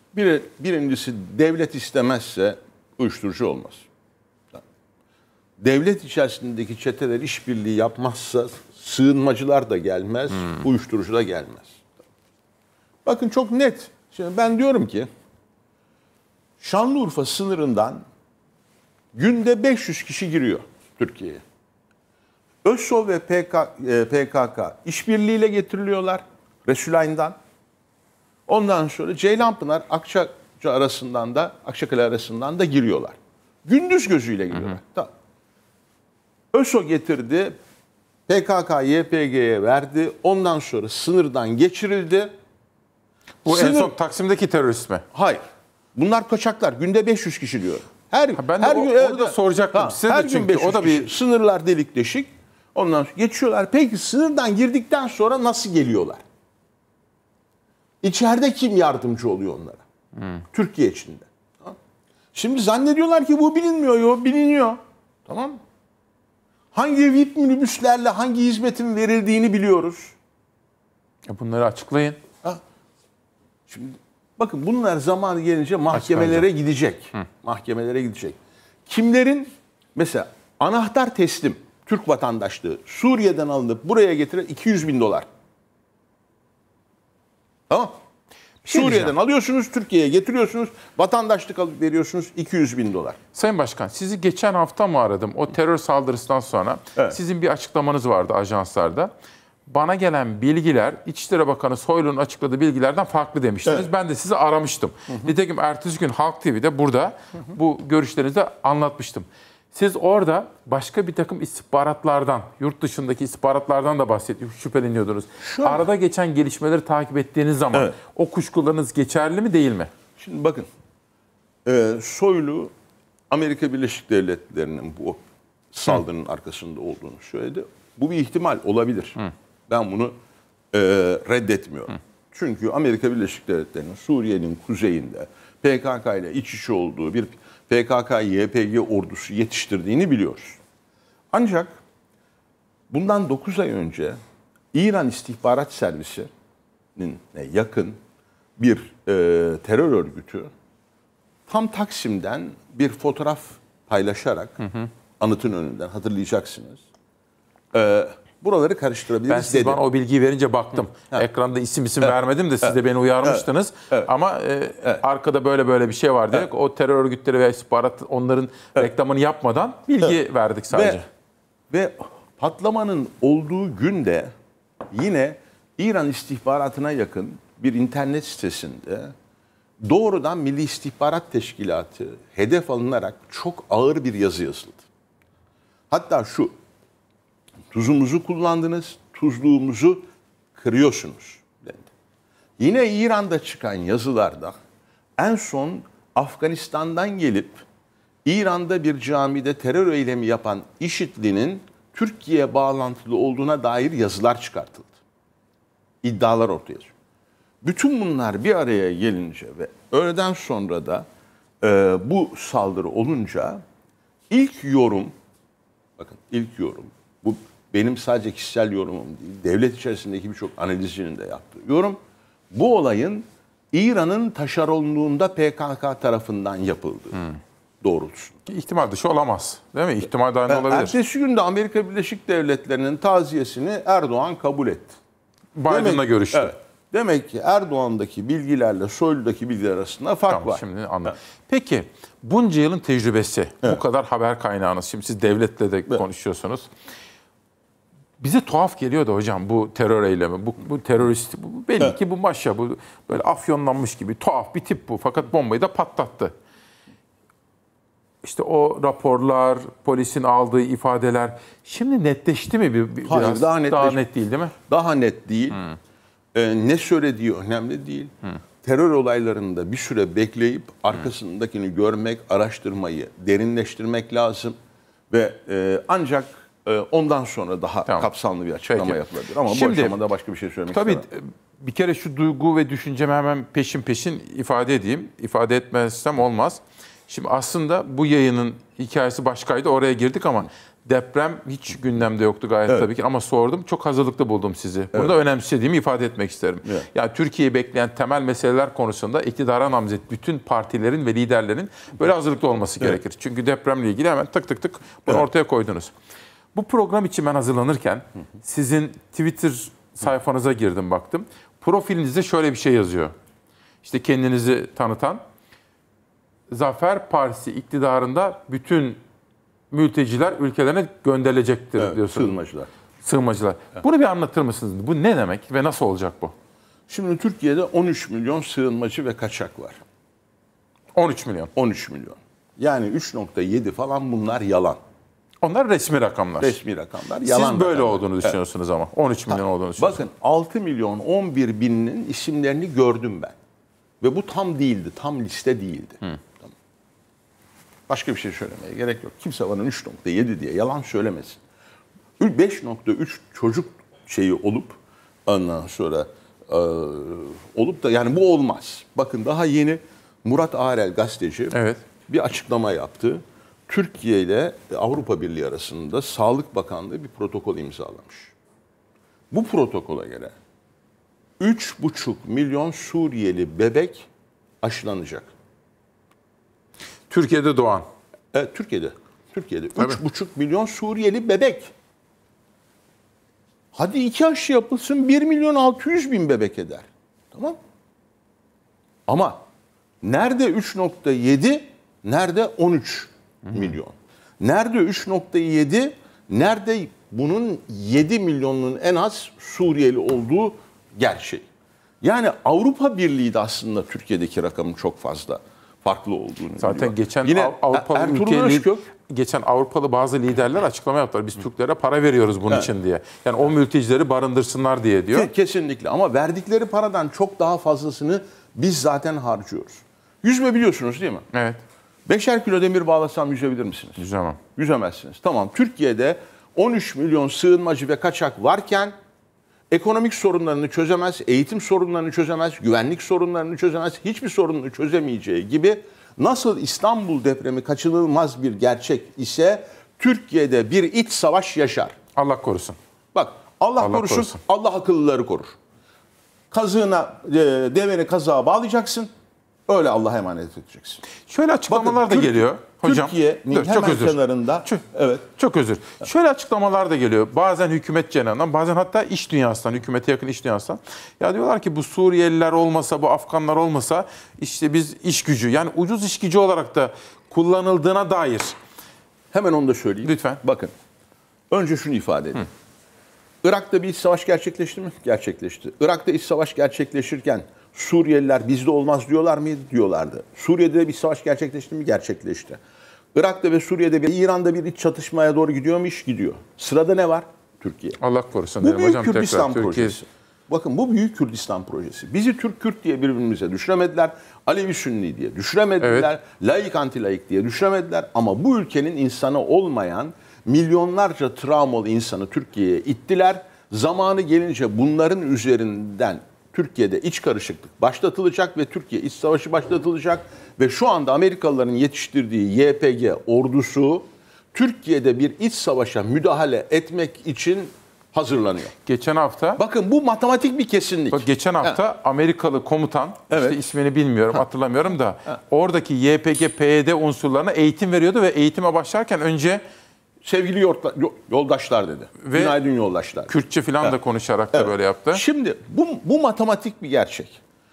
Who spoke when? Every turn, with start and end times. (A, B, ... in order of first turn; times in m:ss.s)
0:00.1-0:03.8 A
0:05.6-0:11.8 A
0:13.0-0:15.1 A
0:16.6-0:18.0 A
0:19.1-0:21.4 A
0:22.6-0:27.4 A
0:28.5-0:35.1 A
0:36.5-0:37.6 A
0:38.3-0:42.3 A
0:43.4-0:45.0 B
0:43.5-0:43.9 A
0:45.1-0:45.4 A
0:46.0-0:56.2 A
0:48.4-0:51.1 B
0:58.0-0:59.8 A
1:00.5-1:01.8 A
1:02.3-1:05.6 A
1:06.7-1:10.2 A
1:11.3-1:12.2 B
1:13.7-1:25.3 A
1:15.9-1:16.4 B
1:28.6-1:29.1 B
1:28.6-1:33.2 A
1:33.3-1:39.1 B
1:39.7-1:59.9 B
1:55.4-1:55.9 A
2:00.2-2:00.7 A
2:01.6-2:02.7 A
2:03.3-2:05.2 A
2:05.7-2:10.1 A
2:10.7-2:20.6 A
2:21.3-2:21.8 A
2:22.9-2:24.2 A
2:24.7-2:26.3 A
2:27.0-2:28.0 A
2:28.6-2:30.5 A
2:31.5-2:34.6 A
2:34.6-2:34.9 B
2:35.2-2:36.8 A
2:37.7-2:39.8 A
2:39.3-2:51.0 B
2:42.0-2:44.1 A
2:50.7-2:51.0 A
2:51.7-2:54.3 A
2:54.9-2:59.1 A
2:59.8-3:04.8 A
3:05.9-3:06.5 A
3:07.7-3:10.0 A
3:10.6-3:11.9 A
3:12.6-3:14.5 A
3:15.2-3:17.6 A
3:18.2-3:24.9 A
3:26.0-3:26.9 A
3:27.6-3:31.1 A
3:31.6-3:33.6 A
3:34.3-3:35.1 A
3:36.0-3:42.0 A
3:42.5-3:48.4 A
3:48.5-3:51.0 B
3:50.5-3:55.0 A
3:55.6-3:56.5 B
3:55.7-4:01.2 A
4:00.3-4:06.7 B
4:08.2-4:16.3 B
4:18.2-4:24.5 B
4:23.0-4:24.0 A
4:24.6-4:25.7 A
4:26.3-4:34.6 A
4:35.1-4:41.0 A
4:38.7-4:40.0 B
4:40.7-5:05.9 B
5:06.5-5:13.1 B
5:13.8-5:15.2 B
5:16.5-5:19.0 B
5:19.7-5:22.3 B
5:21.8-5:22.7 A
5:23.0-5:26.3 B
5:26.9-5:29.8 A
5:30.9-5:31.5 B
5:31.6-5:34.8 A
5:35.4-5:36.6 B
5:36.4-5:38.4 A
5:37.2-5:40.0 B
5:39.4-5:43.4 A
5:44.0-5:46.5 A
5:47.9-5:51.4 A
5:52.2-6:08.3 A
6:01.5-6:01.8 B
6:09.3-6:10.3 A
6:11.4-6:14.1 A
6:14.6-6:15.3 A
6:17.1-6:17.9 B
6:18.3-6:21.7 A
6:23.7-6:27.6 A
6:29.1-6:29.4 A
6:30.0-6:41.5 A
6:42.0-6:48.9 A
6:46.6-6:55.3 B
6:55.1-7:01.3 A
7:01.3-7:01.6 B
7:02.1-7:04.0 A
7:04.0-7:04.4 B
7:04.6-7:08.9 A
7:09.7-7:22.0 A
7:22.2-7:22.8 B
7:23.1-7:25.6 A
7:23.8-7:24.4 B
7:26.5-7:29.1 A
7:29.7-7:31.1 A
7:31.3-7:34.8 B
7:31.7-7:35.3 A
7:35.4-7:48.6 B
7:49.3-7:50.7 A
7:50.0-7:50.4 B
7:51.5-7:52.5 A
7:53.4-8:02.6 A
8:03.1-8:08.0 A
8:08.0-8:10.0 B
8:08.6-8:38.7 A
8:15.8-8:16.1 B
8:38.8-8:39.6 B
8:39.6-8:41.8 A
8:41.1-8:49.6 B
8:43.3-8:43.7 A
8:50.2-8:53.9 A
8:52.2-8:52.6 B
8:53.3-8:55.2 B
8:54.5-8:57.4 A